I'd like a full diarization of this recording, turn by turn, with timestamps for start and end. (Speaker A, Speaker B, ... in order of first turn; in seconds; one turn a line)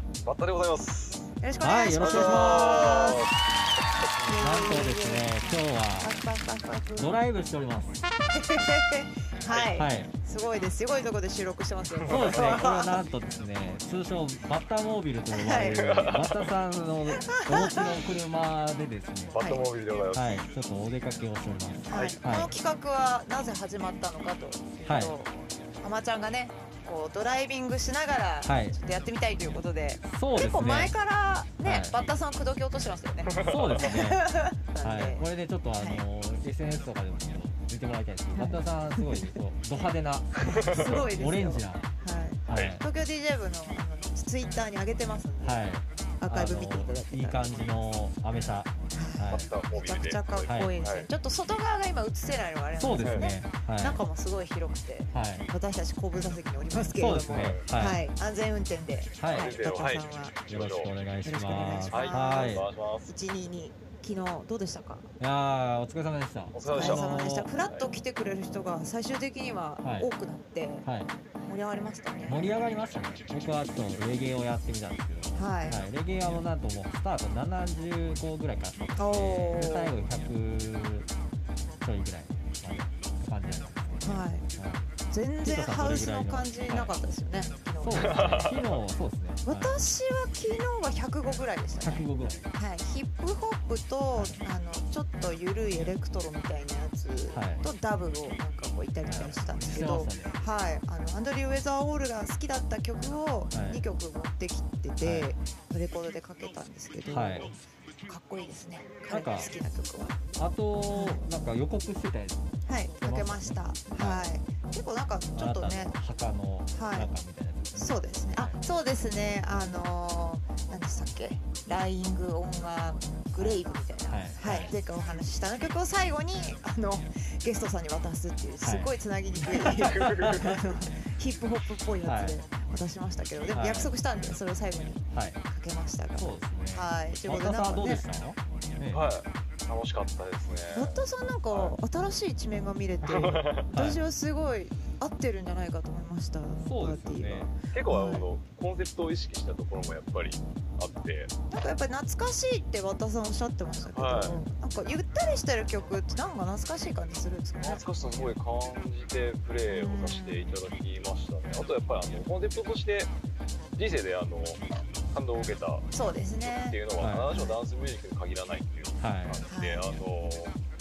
Speaker A: 0.2-1.3
Speaker B: 1.4-3.3
Speaker C: 1.6-3.2
Speaker A: 2.0-3.3
Speaker A: 4.0-4.4
Speaker B: 4.3-7.1
Speaker C: 4.4-6.1
Speaker C: 7.0-8.0
Speaker B: 8.3-13.0
Speaker C: 9.7-10.1
Speaker A: 12.0-12.6
Speaker C: 12.1-19.4
Speaker B: 15.3-15.8
Speaker A: 15.6-16.5
Speaker B: 17.2-18.1
Speaker A: 19.3-20.4
Speaker C: 20.1-22.5
Speaker B: 21.9-35.2
Speaker A: 21.9-22.2
Speaker C: 24.9-25.1
Speaker C: 28.4-28.8
Speaker C: 30.1-30.9
Speaker C: 31.6-31.9
Speaker A: 33.3-33.8
Speaker C: 33.4-34.3
Speaker C: 34.8-41.8
Speaker B: 38.3-39.4
Speaker B: 40.4-45.6
Speaker A: 40.5-41.0
Speaker C: 42.5-42.8
Speaker C: 45.4-49.5
Speaker B: 46.2-47.7
Speaker B: 48.9-60.4
Speaker A: 49.3-51.1
Speaker C: 50.5-50.7
Speaker C: 52.8-54.0
Speaker A: 53.0-53.3
Speaker C: 55.1-55.5
Speaker C: 57.0-58.0
Speaker A: 57.3-57.6
Speaker C: 59.2-59.6
Speaker A: 59.3-60.9
Speaker C: 60.5-62.6
Speaker B: 61.2-65.1
Speaker A: 61.9-63.1
Speaker C: 65.2-67.5
Speaker A: 66.5-67.1
Speaker B: 66.7-70.8
Speaker C: 69.8-70.1
Speaker C: 70.8-71.1
Speaker B: 71.4-72.5
Speaker C: 72.3-81.1
Speaker B: 75.4-75.8
Speaker B: 79.0-79.9
Speaker C: 81.8-84.9
Speaker B: 84.0-84.5
Speaker B: 85.1-88.5
Speaker C: 85.5-86.9
Speaker C: 87.8-89.8
Speaker A: 87.9-88.8
Speaker B: 89.5-107.5
Speaker C: 91.8-92.5
Speaker C: 94.2-94.4
Speaker C: 97.3-97.7
Speaker C: 99.1-100.4
Speaker C: 103.5-103.8
Speaker C: 105.0-105.3
Speaker C: 107.1-107.6
Speaker B: 108.1-110.2
Speaker C: 109.1-109.5
Speaker C: 110.4-114.3
Speaker B: 110.9-111.2
Speaker B: 112.7-116.0
Speaker C: 115.3-118.6
Speaker B: 116.8-117.1
Speaker B: 117.8-138.0
Speaker C: 123.4-124.7
Speaker C: 128.6-128.9
Speaker C: 129.4-130.4
Speaker A: 129.6-130.8
Speaker C: 132.1-132.4
Speaker C: 133.5-133.9
Speaker C: 135.1-135.4
Speaker C: 136.2-139.1
Speaker A: 138.9-141.0
Speaker B: 140.7-148.2
Speaker A: 143.1-143.7
Speaker C: 143.7-144.0
Speaker C: 146.6-147.5
Speaker A: 147.7-151.3
Speaker B: 151.5-157.8
Speaker A: 153.9-154.4
Speaker A: 157.6-163.1
Speaker B: 159.7-160.5
Speaker A: 163.8-170.5
Speaker B: 165.9-166.8
Speaker C: 167.0-167.3
Speaker C: 169.0-169.4
Speaker B: 169.5-169.9